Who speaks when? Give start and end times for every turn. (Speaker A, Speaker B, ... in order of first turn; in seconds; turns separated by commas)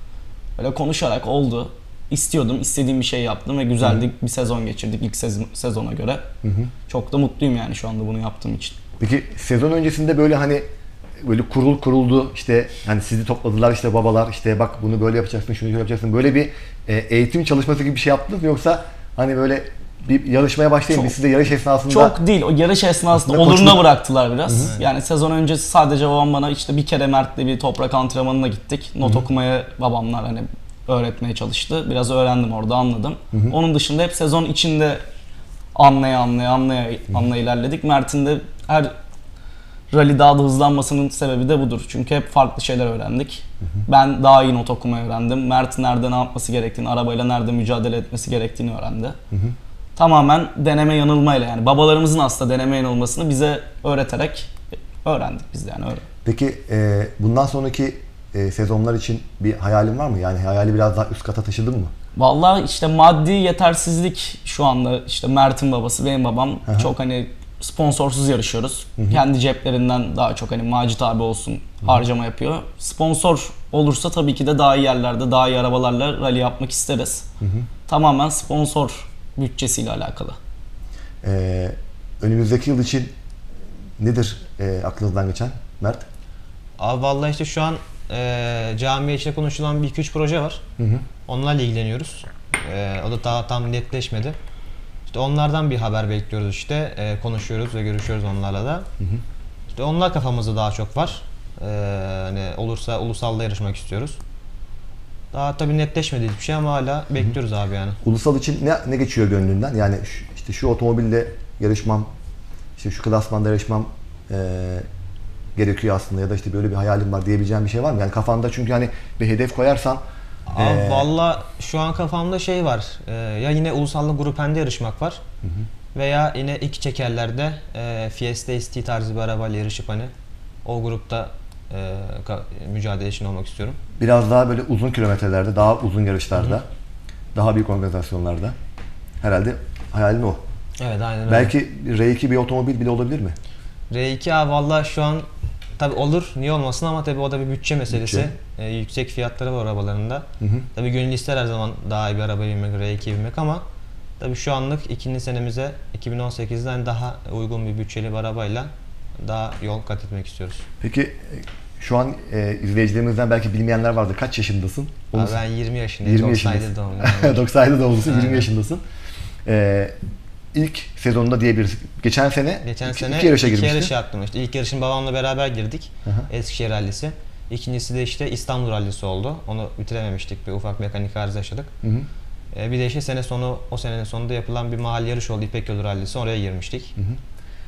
Speaker A: 0.6-6.3, Speaker B: 3.8-4.1, Speaker B: 6.4-6.7, Speaker A: 6.9-8.8, Speaker B: 9.0-10.7, Speaker B: 11.2-22.2, Speaker A: 21.9-35.0, Speaker B: 23.1-23.9, Speaker A: 35.7-38.9, Speaker A: 39.9-49.2, Speaker B: 49.3-49.5, Speaker A: 50.0-56.0, Speaker B: 56.2-61.9, Speaker A: 62.1-77.2, Speaker B: 66.7-66.9, Speaker B: 77.4-77.7, Speaker A: 77.9-80.4, Speaker B: 81.2-83.1, Speaker B: 84.0-86.0, Speaker C: 86.8-90.6, Speaker B: 90.8-91.0, Speaker C: 91.3-94.4, Speaker C: 95.1-98.9, Speaker C: 99.7-104.2, Speaker C: 105.3-108.0, Speaker B: 108.0-112.1, Speaker B: 112.8-114.9, Speaker B: 115.5-120.0, Speaker C: 120.5-125.2, Speaker B: 120.5-121.1, Speaker C: 125.9-130.1, Speaker C: 130.6-133.8, Speaker B: 134.0-136.7, Speaker B: 137.3-138.6, Speaker B: 139.2-140.4, Speaker C: 140.8-141.5, Speaker B: 141.3-143.3, Speaker C: 143.9-145.3, Speaker C: 145.8-153.6, Speaker B: 147.9-148.3, Speaker B: 150.4-150.7, Speaker C: 154.2-160.6, Speaker B: 160.8-165.4, Speaker C: 165.1-167.4, Speaker B: 166.0-168.8, Speaker C: 168.0-168.4, Speaker B: 169.4-169.9, Speaker B: 170.5-173.9, Speaker C: 172.6-181.7, Speaker B: 181.8-182.1, Speaker C: 182.5-186.9